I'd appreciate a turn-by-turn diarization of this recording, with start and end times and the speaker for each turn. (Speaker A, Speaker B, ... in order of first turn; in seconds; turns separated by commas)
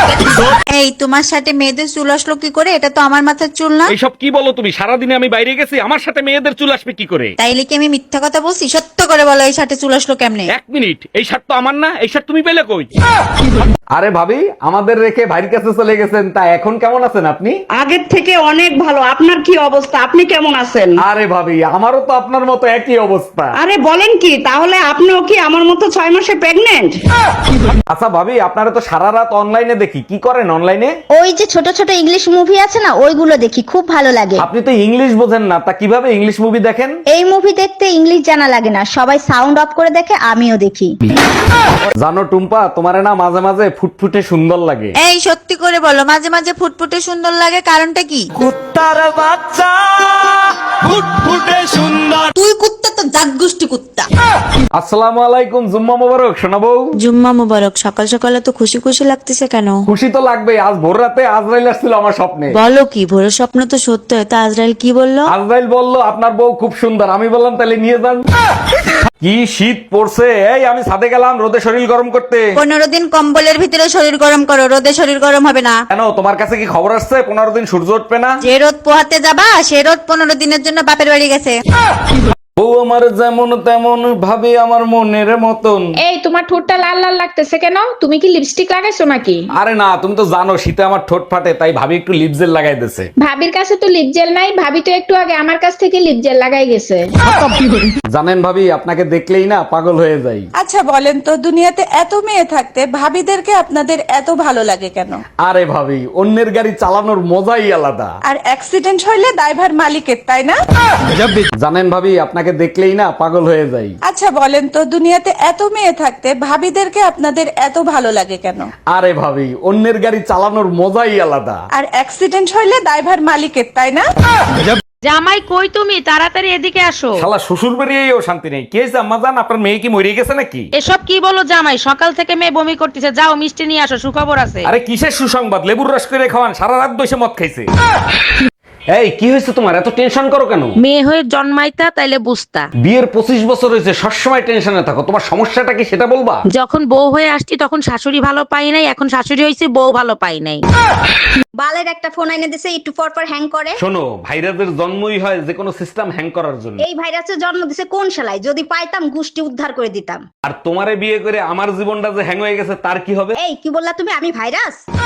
Speaker A: 0.8-3.8, Speaker B: 3.9-7.3, Speaker A: 7.4-10.4, Speaker B: 10.5-12.9, Speaker B: 13.9-17.6, Speaker C: 17.8-20.9, Speaker B: 21.0-23.6, Speaker C: 23.6-25.8, Speaker B: 27.9-31.0, Speaker D: 31.1-34.5, Speaker B: 34.4-37.0, Speaker D: 37.1-41.0, Speaker B: 42.0-45.0, Speaker A: 45.0-48.2, Speaker A: 52.4-54.1, Speaker B: 54.8-56.9, Speaker A: 57.1-59.8, Speaker B: 59.9-62.6, Speaker A: 62.6-65.3, Speaker B: 65.3-68.2, Speaker B: 69.2-72.6, Speaker A: 72.6-75.8, Speaker B: 75.9-78.4, Speaker A: 78.5-81.5, Speaker B: 82.6-85.9, Speaker E: 86.0-89.4, Speaker B: 89.5-93.1, Speaker E: 93.3-97.0, Speaker B: 98.1-100.5, Speaker F: 100.6-105.2, Speaker B: 105.4-108.2, Speaker F: 108.2-110.6, Speaker B: 111.6-114.0, Speaker F: 114.1-118.7, Speaker B: 118.9-121.6, Speaker F: 121.7-124.1, Speaker G: 125.0-127.3, Speaker B: 127.2-130.7, Speaker G: 130.8-134.7, Speaker B: 134.6-137.7, Speaker B: 138.9-140.8, Speaker G: 140.8-142.7, Speaker B: 142.8-146.4, Speaker G: 146.5-150.6, Speaker D: 151.6-153.8, Speaker B: 153.8-156.8, Speaker D: 156.8-160.2, Speaker B: 160.4-163.4, Speaker D: 163.4-164.8